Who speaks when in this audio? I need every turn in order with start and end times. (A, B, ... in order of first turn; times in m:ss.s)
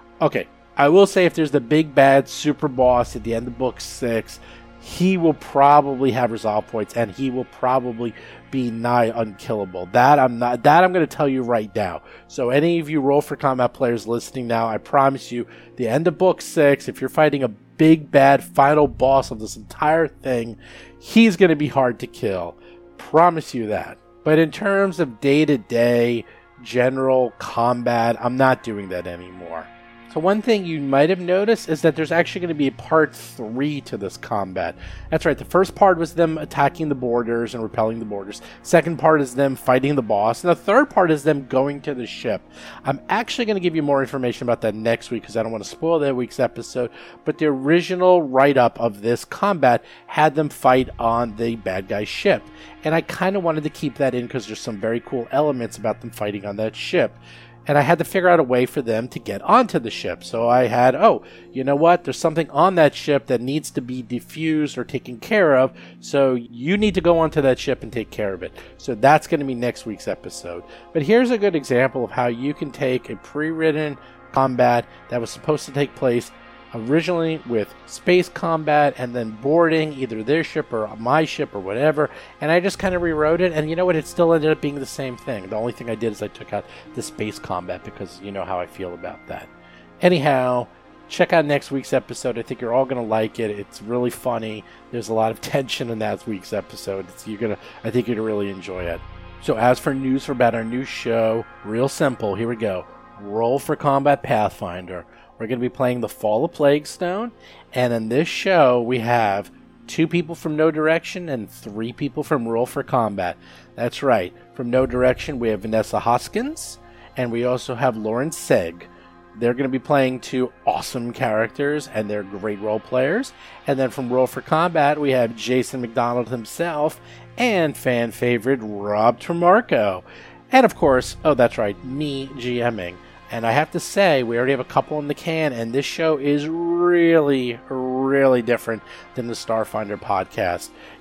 0:00.2-2:20.7 A